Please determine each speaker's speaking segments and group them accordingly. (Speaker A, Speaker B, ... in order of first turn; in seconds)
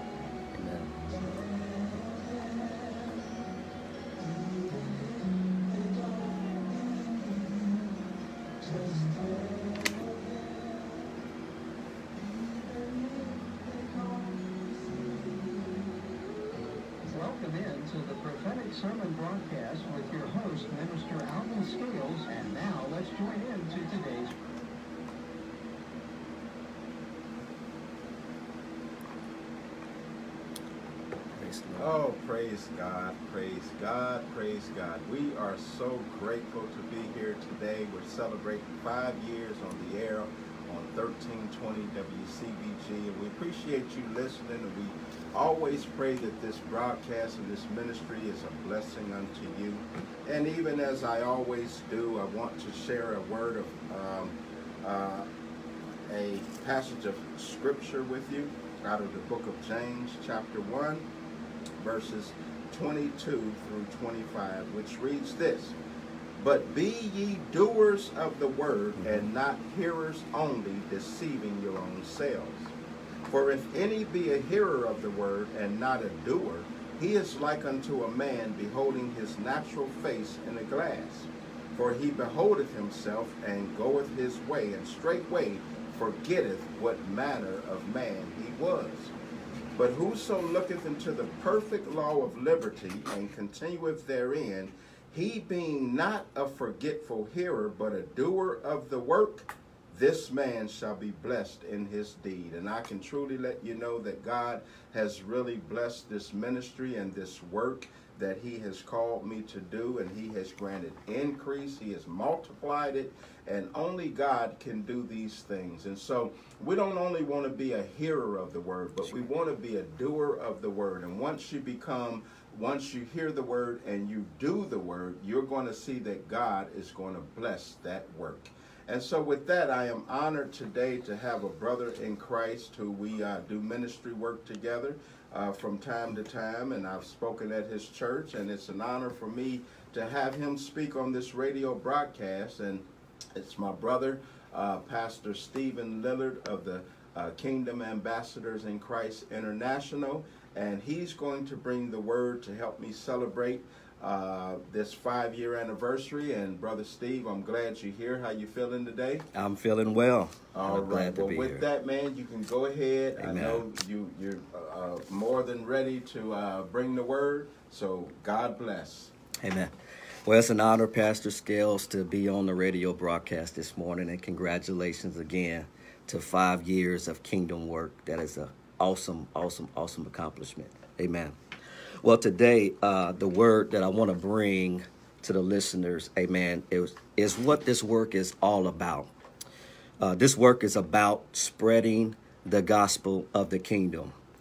Speaker A: 0.5-1.5, 31.3-32.0, 69.0-69.2, 159.3-161.6, 163.2-163.6, 169.4-169.7, 170.2-181.3, 182.0-189.1, 190.0-194.1
Speaker B: 5.7-7.5, 8.6-10.5, 12.3-15.7, 17.1-24.4
Speaker C: 31.8-55.3, 56.1-61.0, 61.8-65.8, 66.4-72.7, 73.3-89.1, 89.7-159.2, 160.5-169.1